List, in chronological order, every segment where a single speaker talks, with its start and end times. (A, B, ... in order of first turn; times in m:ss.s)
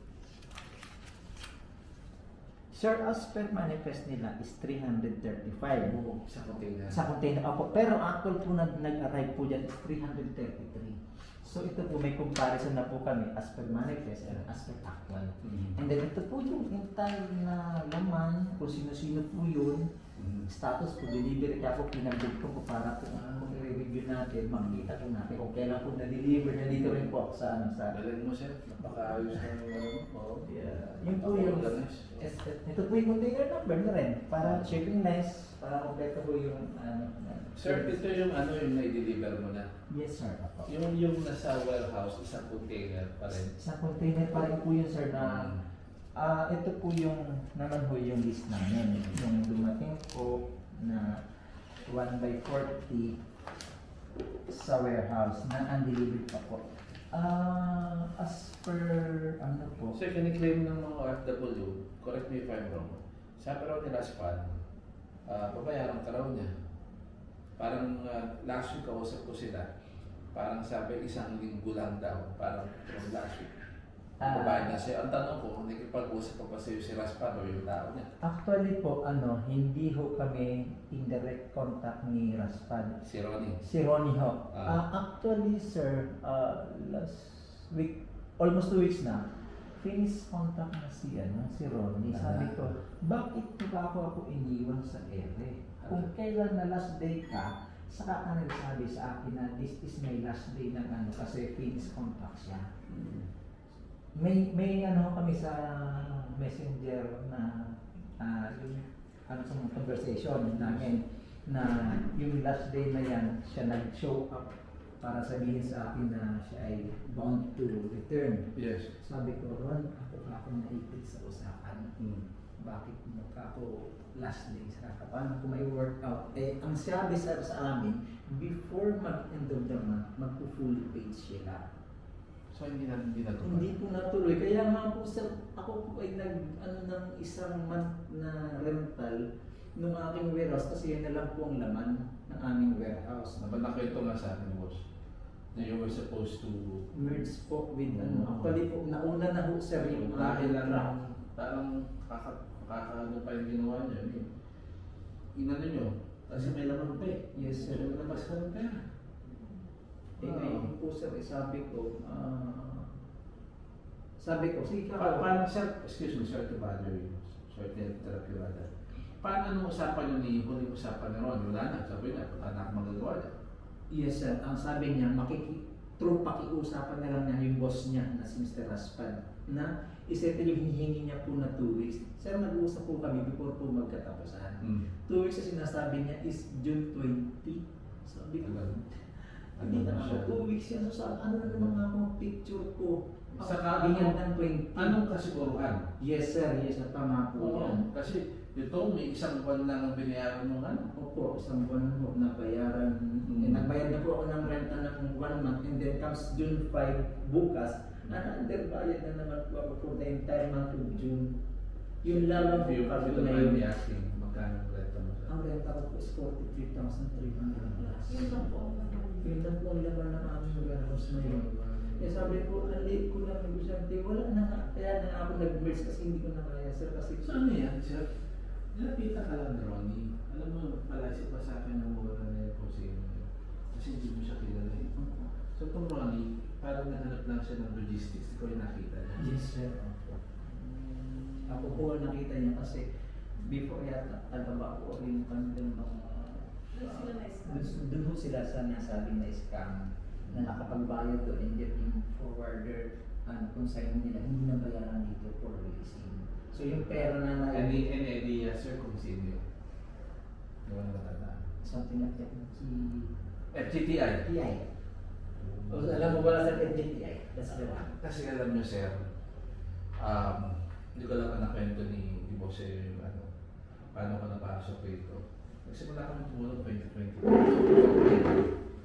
0:02.7-0:06.0 A
0:05.8-0:07.0 B
0:06.9-0:19.9 A
0:15.4-0:15.8 B
0:20.2-0:20.5 B
0:20.5-0:27.9 A
0:23.2-0:23.5 B
0:26.7-0:27.1 B
0:27.9-0:30.5 B
0:28.8-0:29.4 A
0:30.4-0:38.0 A
0:31.2-0:32.3 B
0:34.4-0:34.8 B
0:37.6-0:39.7 B
0:39.9-0:40.7 A
0:40.6-0:43.6 B
0:43.6-0:45.5 A
0:45.2-0:45.6 B
0:46.2-0:51.2 A
0:51.9-0:53.2 A
0:54.4-1:00.0 A
0:59.9-1:04.6 B
1:05.3-1:06.5 B
1:07.6-1:09.7 B
1:10.3-1:13.6 B
1:14.2-1:14.7 A
1:14.2-1:18.1 B
1:18.2-1:23.0 A
1:23.0-1:23.6 B
1:23.6-1:29.2 A
1:24.5-1:24.8 B
1:29.8-1:42.7 A
1:32.1-1:32.7 B
1:35.8-1:36.1 B
1:42.9-1:43.3 B
1:44.1-2:01.9 A
1:50.6-1:50.9 B
1:58.6-1:58.9 B
2:02.0-2:02.3 B
2:02.6-2:11.6 A
2:12.5-2:13.7 B
2:13.4-2:19.2 A
2:19.8-2:23.7 A
2:23.4-2:24.8 B
2:25.5-2:27.2 B
2:26.9-2:31.0 A
2:27.9-2:28.6 B
2:29.8-2:34.3 B
2:35.4-2:38.8 B
2:37.3-2:38.3 A
2:40.2-2:40.7 B
2:40.2-2:42.9 A
2:44.2-2:45.4 A
2:45.0-2:48.7 B
2:49.2-2:53.4 B
2:53.9-3:09.0 A
3:04.6-3:04.9 B
3:08.4-3:08.8 B
3:09.6-3:10.5 B
3:09.6-3:15.0 A
3:13.4-3:14.2 B
3:14.8-3:15.9 B
3:16.0-3:17.9 A
3:17.4-3:20.9 B
3:20.9-3:31.4 A
3:23.2-3:23.7 B
3:32.0-3:33.7 A
3:32.0-3:35.3 B
3:35.3-3:38.6 A
3:38.1-3:39.4 C
3:39.2-3:47.4 A
3:40.6-3:42.5 B
3:47.2-3:48.1 B
3:48.7-3:54.9 B
3:54.9-3:55.3 A
3:55.5-3:59.4 B
3:59.2-4:02.9 A
4:01.1-4:01.8 B
4:03.4-4:17.9 A
4:06.7-4:07.8 C
4:10.2-4:10.6 B
4:16.7-4:19.4 B
4:20.6-4:21.5 B
4:21.6-4:23.1 A
4:23.5-4:24.3 B
4:24.2-4:24.7 A
4:25.4-4:26.6 B
4:25.7-4:28.0 A
4:27.9-4:29.0 B
4:30.0-4:33.3 B
4:33.9-4:38.5 B